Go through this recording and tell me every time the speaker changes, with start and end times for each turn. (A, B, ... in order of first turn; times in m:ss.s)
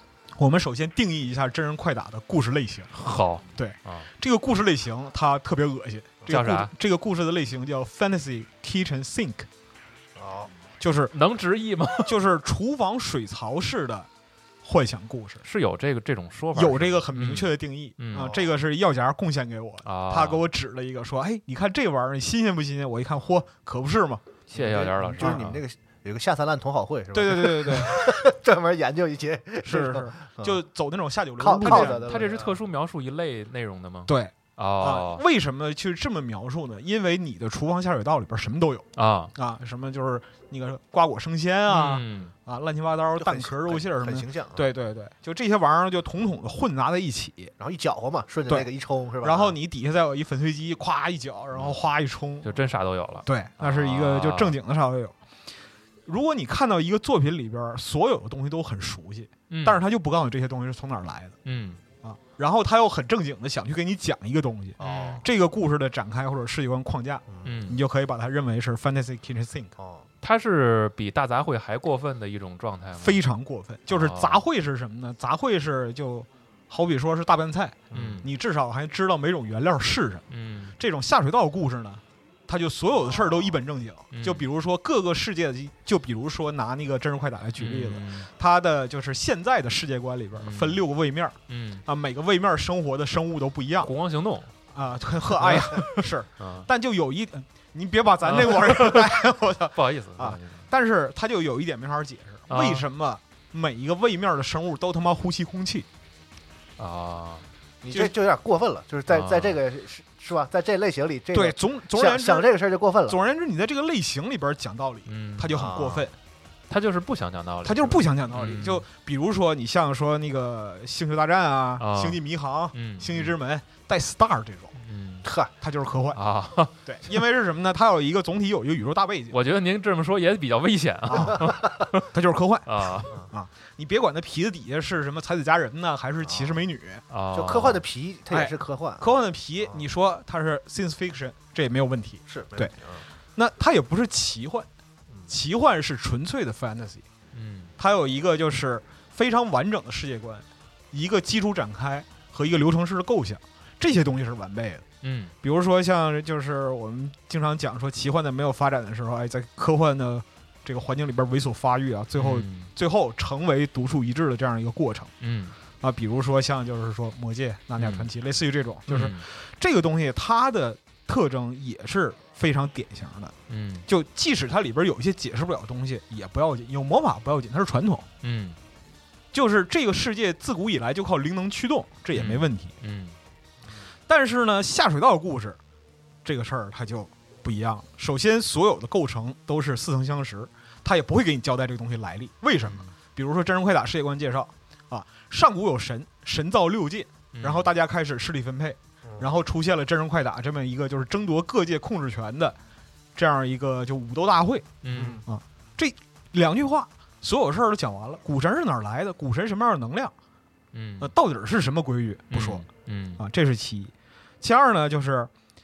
0:00.4-0:02.9 A
0:02.9-0:04.1 B
0:03.6-0:09.5 A
0:06.3-0:06.7 B
0:10.2-0:10.5 C
0:10.8-0:11.2 A
0:11.1-0:12.1 B
0:12.0-0:14.1 A
0:14.6-0:15.4 A
0:15.4-0:18.3 B
0:16.6-0:24.2 A
0:18.1-0:18.5 C
0:19.8-0:20.4 B
0:24.5-0:25.6 B
0:24.5-0:30.6 C
0:27.1-0:28.2 A
0:29.6-0:32.2 A
0:31.4-0:32.6 C
0:31.6-0:35.2 B
0:34.1-0:47.5 A
0:39.0-0:39.3 B
0:41.7-0:42.3 B
0:43.2-0:44.7 C
0:47.6-0:49.6 C
0:49.2-0:52.6 A
0:52.4-0:54.6 B
0:53.2-0:55.2 A
0:56.1-1:01.4 A
0:59.5-0:59.8 B
1:01.4-1:01.8 B
1:02.0-1:09.7 A
1:04.8-1:05.3 C
1:04.8-1:05.3 B
1:07.3-1:07.6 C
1:07.4-1:07.8 B
1:09.8-1:10.1 C
1:10.2-1:13.2 B
1:13.0-1:20.2 A
1:13.9-1:14.4 B
1:17.9-1:18.2 C
1:17.9-1:18.3 B
1:20.3-1:20.8 B
1:20.8-1:33.9 A
1:23.0-1:23.6 C
1:24.1-1:24.5 B
1:27.6-1:28.3 B
1:30.4-1:30.8 B
1:31.5-1:31.8 B
1:33.8-1:34.5 B
1:34.7-1:45.9 A
1:35.4-1:36.7 B
1:38.2-1:40.6 B
1:42.5-1:42.9 B
1:46.8-1:47.5 B
1:47.8-1:53.2 C
1:49.1-1:49.6 B
1:51.3-1:52.5 A
1:53.1-1:56.1 A
1:55.1-1:55.6 B
1:55.5-1:56.1 C
1:56.7-1:58.8 B
1:57.6-2:04.7 A
2:01.8-2:03.3 B
2:04.8-2:05.3 B
2:05.2-2:05.5 C
2:05.6-2:06.2 A
2:06.1-2:07.2 B
2:06.8-2:09.4 A
2:09.3-2:12.1 B
2:11.1-2:11.6 A
2:12.1-2:17.0 A
2:12.7-2:13.1 B
2:16.2-2:16.6 C
2:17.1-2:17.8 B
2:17.3-2:19.8 C
2:18.3-2:22.7 A
2:22.3-2:23.0 C
2:23.4-2:24.7 A
2:25.3-2:27.0 A
2:27.3-2:27.7 B
2:27.8-2:34.8 A
2:35.0-2:35.3 B
2:35.4-2:45.1 A
2:42.2-2:42.7 B
2:45.2-2:45.6 B
2:45.8-2:53.3 A
2:47.8-2:48.1 B
2:48.9-2:49.2 B
2:53.5-2:53.9 B
2:53.9-2:58.1 A
2:58.2-2:58.6 B
2:59.3-3:02.7 A
3:02.1-3:03.2 B
3:04.1-3:05.6 A
3:06.2-3:22.6 A
3:12.6-3:12.9 B
3:17.3-3:17.7 B
3:23.2-3:24.7 A
3:24.8-3:25.2 B
3:24.9-3:25.2 C
3:25.3-3:30.1 A
3:30.7-3:31.1 B
3:31.0-3:32.7 A
3:32.3-3:33.2 B
3:33.2-3:35.3 A